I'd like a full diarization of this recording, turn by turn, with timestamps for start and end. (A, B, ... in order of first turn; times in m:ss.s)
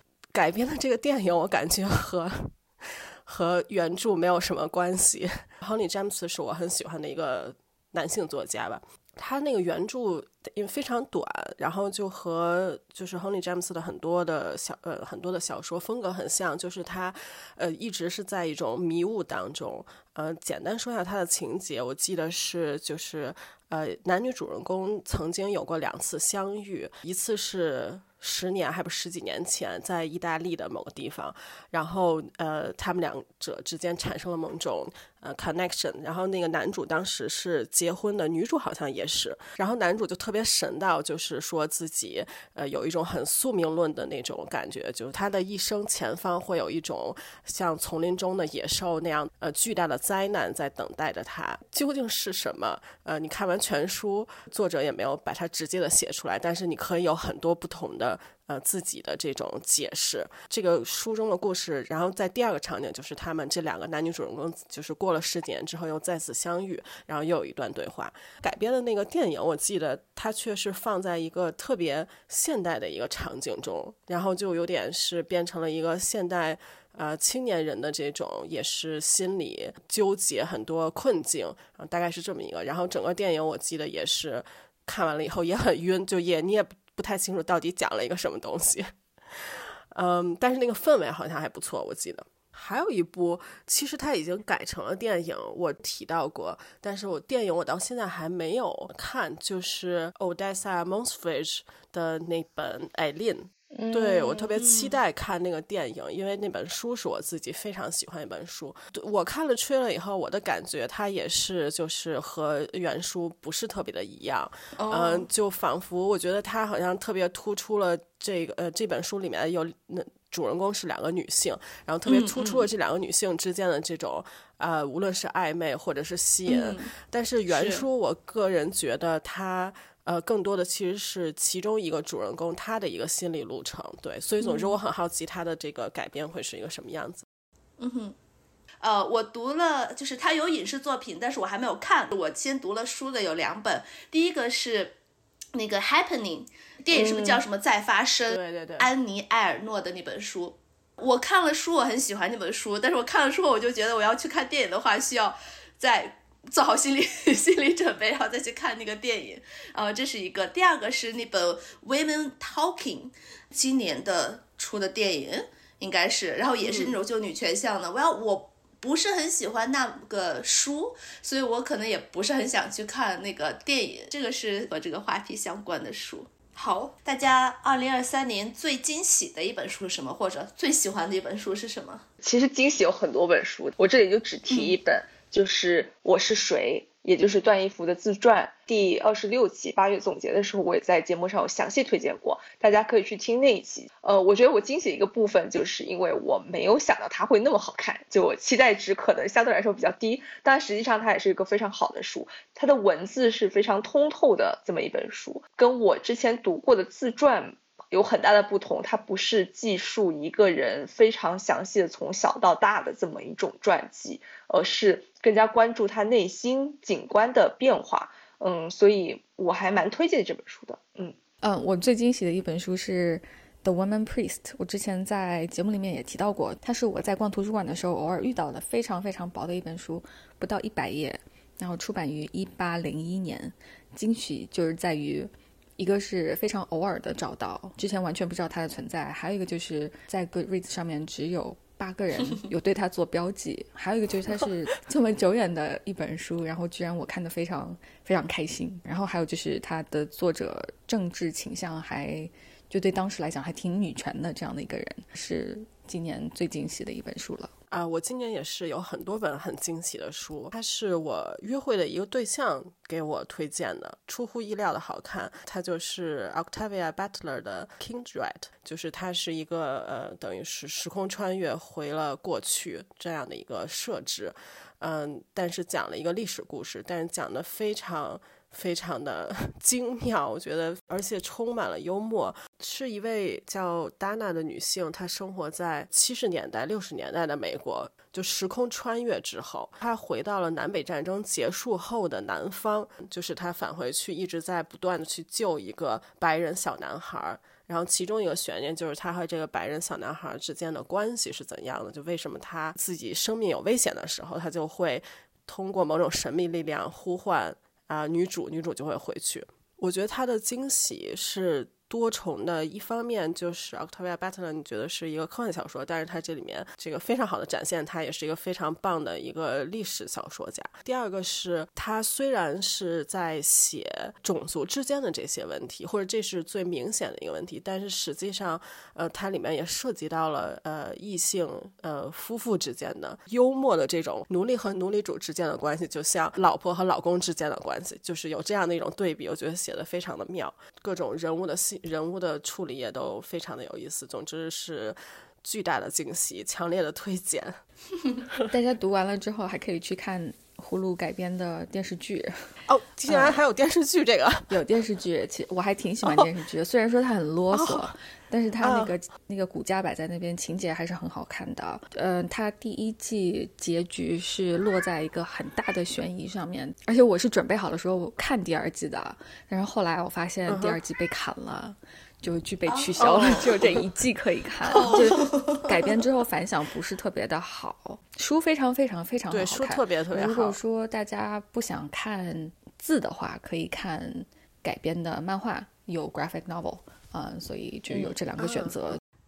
0:00.3-2:17.2 A
1:43.7-1:44.5 B
1:44.6-1:44.9 C
1:54.8-1:55.3 C
2:02.1-2:02.7 C
2:06.5-2:06.9 C
2:07.5-2:07.8 C
2:14.4-2:14.8 C
2:17.8-2:18.2 C
2:18.8-2:25.0 C
2:25.5-3:02.0 C
2:26.9-2:27.4 B
2:28.3-2:28.9 A
2:46.6-2:47.0 A
3:02.2-3:41.2 B
3:04.5-3:04.8 C
3:41.4-4:17.5 D
4:17.7-5:47.6 A
5:48.5-5:52.4 D
5:52.7-5:54.6 A
5:53.1-5:53.4 D
5:54.5-6:29.0 D
5:57.5-5:57.9 A
5:58.6-5:58.9 A
6:10.5-6:10.8 A
6:12.7-6:13.6 C
6:14.7-6:15.8 C
6:19.3-6:20.6 A
6:27.9-6:28.8 A